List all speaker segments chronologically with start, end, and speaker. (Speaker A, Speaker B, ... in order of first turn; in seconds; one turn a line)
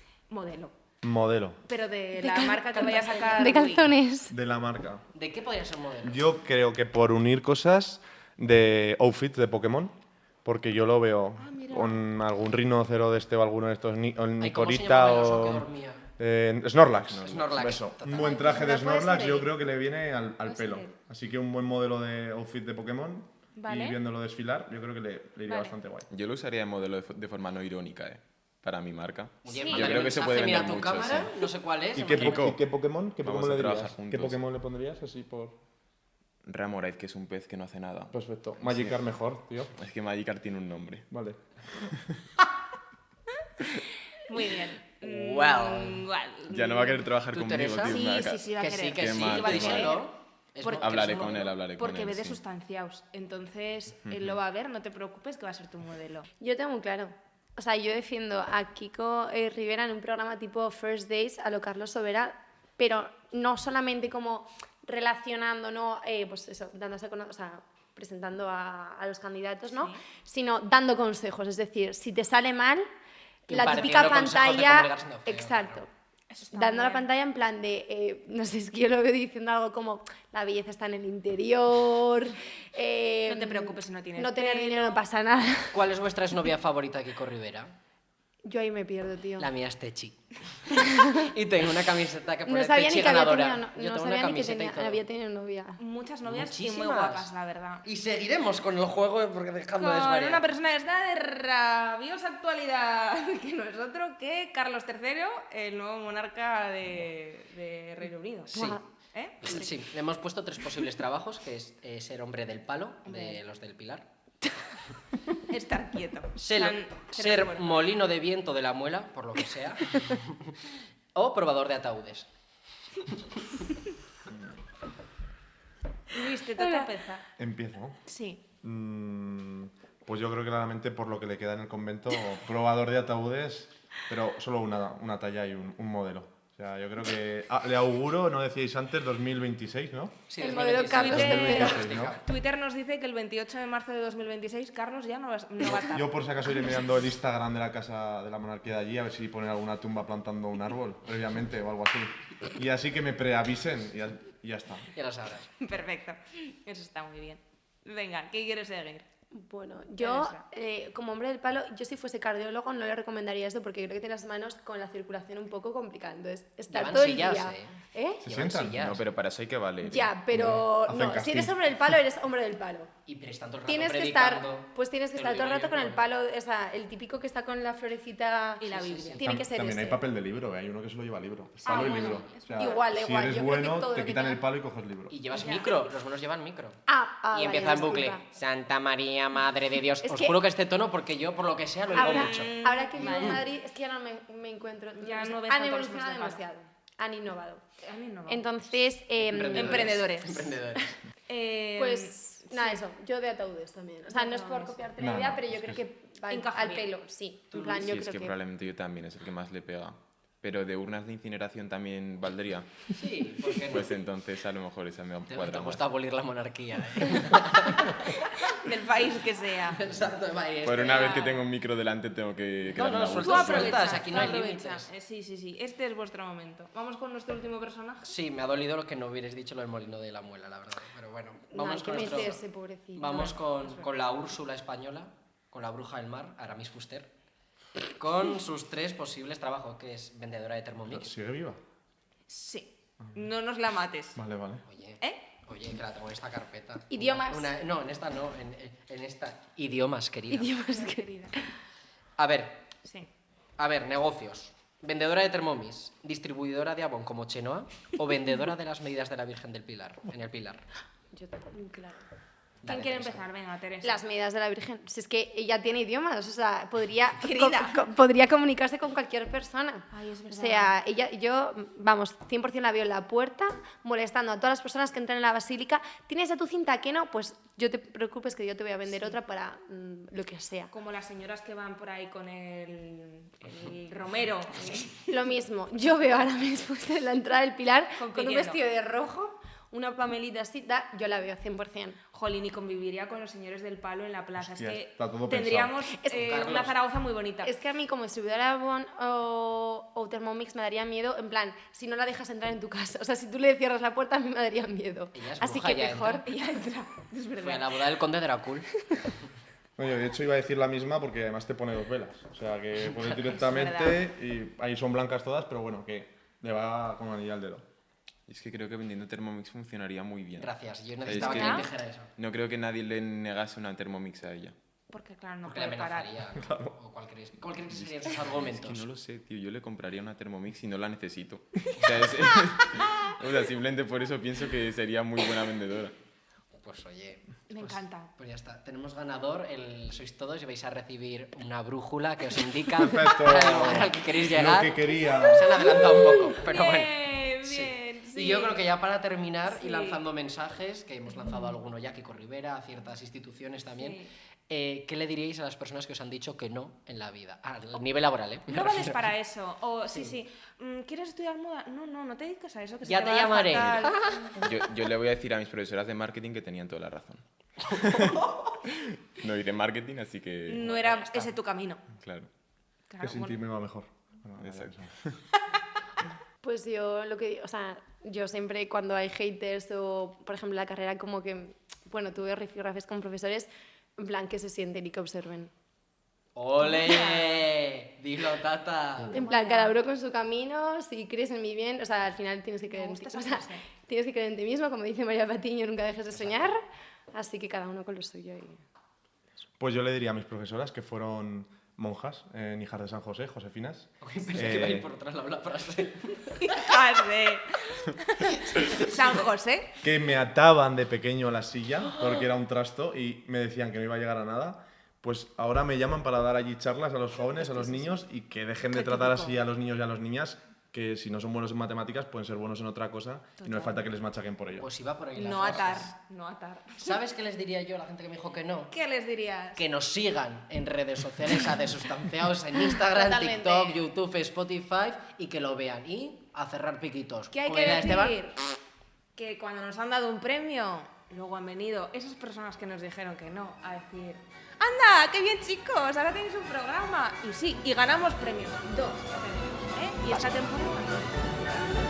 Speaker A: 0.3-0.7
Speaker B: 1.0-1.6
Speaker A: 1.6-3.9
Speaker C: 2.2-4.3
Speaker B: 4.3-5.1
Speaker D: 5.1-6.3
Speaker B: 6.0-15.7
Speaker A: 11.4-12.0
Speaker D: 14.4-16.1
Speaker B: 16.2-26.1
Speaker E: 17.1-17.5
Speaker D: 17.2-18.5
Speaker C: 18.2-19.5
Speaker A: 18.3-19.3
Speaker A: 20.4-20.9
Speaker A: 23.6-24.0
Speaker A: 25.4-25.7
Speaker E: 26.1-31.4
Speaker D: 29.4-32.5
Speaker A: 29.5-30.2
Speaker B: 31.9-35.5
Speaker E: 32.1-32.6
Speaker E: 33.2-34.4
Speaker E: 36.4-39.0
Speaker B: 38.1-39.7
Speaker E: 39.7-41.1
Speaker B: 41.1-41.9
Speaker A: 44.2-47.0
Speaker D: 45.0-46.0
Speaker E: 46.5-50.0
Speaker D: 47.3-48.0
Speaker A: 47.8-50.0
Speaker D: 48.6-51.5
Speaker A: 50.6-56.3
Speaker E: 50.7-52.4
Speaker E: 54.1-54.4
Speaker C: 56.4-72.9
Speaker A: 69.7-70.0
Speaker D: 73.5-75.8
Speaker C: 73.5-75.9
Speaker A: 76.3-77.1
Speaker C: 76.5-85.9
Speaker A: 83.2-85.0
Speaker D: 85.7-87.7
Speaker C: 88.4-89.5
Speaker D: 89.4-95.0
Speaker C: 92.5-95.8
Speaker A: 95.8-97.8
Speaker D: 96.2-97.3
Speaker D: 97.8-100.5
Speaker A: 99.8-109.7
Speaker D: 108.5-108.8
Speaker C: 108.5-108.8
Speaker D: 109.4-114.1
Speaker A: 115.5-117.8
Speaker D: 116.4-120.5
Speaker D: 121.1-122.3
Speaker D: 123.0-123.3
Speaker A: 126.1-127.2
Speaker C: 126.6-126.9
Speaker B: 127.4-128.0
Speaker A: 128.1-128.4
Speaker B: 128.6-140.3
Speaker D: 140.3-142.2
Speaker C: 140.4-141.9
Speaker A: 140.8-146.1
Speaker B: 140.9-142.2
Speaker B: 145.7-154.9
Speaker D: 154.9-155.5
Speaker A: 155.6-159.1
Speaker C: 159.3-168.2
Speaker A: 160.0-160.4
Speaker D: 166.7-169.0
Speaker B: 168.2-168.9
Speaker E: 168.8-170.1
Speaker C: 169.8-172.9
Speaker B: 170.3-171.5
Speaker D: 173.1-176.0
Speaker C: 173.7-180.0
Speaker A: 178.6-179.2
Speaker D: 178.7-179.2
Speaker B: 179.2-185.1
Speaker A: 181.6-182.8
Speaker C: 181.6-184.4
Speaker D: 185.1-193.4
Speaker A: 185.3-185.8
Speaker C: 186.9-188.2
Speaker C: 190.0-190.4
Speaker A: 191.9-193.4
Speaker C: 191.9-197.6
Speaker A: 195.0-196.4
Speaker A: 197.8-198.5
Speaker C: 198.3-200.0
Speaker D: 199.2-201.0
Speaker A: 199.5-202.8
Speaker C: 201.8-208.3
Speaker A: 204.1-204.8
Speaker B: 205.0-205.8
Speaker A: 206.3-206.9
Speaker D: 207.5-207.9
Speaker E: 207.6-212.9
Speaker D: 212.9-213.9
Speaker E: 213.5-215.8
Speaker D: 215.3-218.1
Speaker A: 218.1-219.8
Speaker D: 219.7-221.4
Speaker E: 220.6-224.0
Speaker A: 220.9-221.4
Speaker D: 222.7-224.9
Speaker A: 223.2-228.1
Speaker D: 228.0-232.4
Speaker C: 231.5-233.4
Speaker D: 232.9-237.1
Speaker D: 238.0-241.1
Speaker B: 240.9-241.6
Speaker A: 242.3-244.2
Speaker B: 243.0-243.3
Speaker B: 244.2-244.6
Speaker D: 244.6-250.5
Speaker A: 245.0-245.3
Speaker C: 246.9-247.6
Speaker C: 250.3-251.4
Speaker A: 250.7-251.3
Speaker D: 252.2-252.7
Speaker D: 253.6-260.6
Speaker C: 261.1-262.1
Speaker D: 262.6-263.2
Speaker A: 262.6-264.0
Speaker C: 263.8-280.7
Speaker A: 267.2-267.9
Speaker A: 269.9-270.7
Speaker A: 278.9-279.1
Speaker A: 280.7-285.1
Speaker C: 285.1-292.0
Speaker A: 287.9-288.6
Speaker A: 292.1-297.5
Speaker B: 294.4-295.8
Speaker C: 296.0-296.7
Speaker D: 296.1-296.8
Speaker C: 297.4-306.2
Speaker D: 305.1-306.2
Speaker A: 306.0-307.8
Speaker D: 307.4-308.7
Speaker B: 309.8-317.6
Speaker A: 313.3-314.0
Speaker E: 318.3-324.5
Speaker D: 320.4-322.1
Speaker A: 321.1-321.7
Speaker A: 324.9-326.1
Speaker D: 325.4-328.8
Speaker B: 326.3-326.7
Speaker E: 327.7-335.9
Speaker D: 336.5-359.0
Speaker A: 337.5-338.1
Speaker B: 342.7-345.7
Speaker C: 345.9-346.3
Speaker A: 346.4-348.7
Speaker A: 349.5-350.0
Speaker A: 353.8-354.1
Speaker A: 358.5-364.4
Speaker D: 359.9-360.2
Speaker D: 362.8-364.1
Speaker E: 364.4-371.3
Speaker D: 367.7-368.5
Speaker A: 370.5-371.8
Speaker E: 371.9-372.3
Speaker A: 372.9-373.4
Speaker B: 373.0-375.0
Speaker E: 374.4-374.8
Speaker C: 376.4-385.5
Speaker D: 386.3-389.2
Speaker A: 386.6-387.5
Speaker A: 389.1-389.7
Speaker C: 389.1-398.6
Speaker A: 392.7-393.6
Speaker D: 396.1-396.5
Speaker B: 399.6-404.9
Speaker D: 404.0-406.6
Speaker A: 406.3-409.7
Speaker D: 408.5-409.2
Speaker B: 409.8-424.7
Speaker A: 418.7-419.4
Speaker A: 423.4-423.8
Speaker D: 424.6-425.9
Speaker A: 425.1-427.0
Speaker D: 426.8-428.7
Speaker A: 428.7-429.6
Speaker D: 429.6-438.3
Speaker C: 432.9-433.8
Speaker A: 437.4-438.3
Speaker A: 439.1-451.6
Speaker D: 450.1-450.4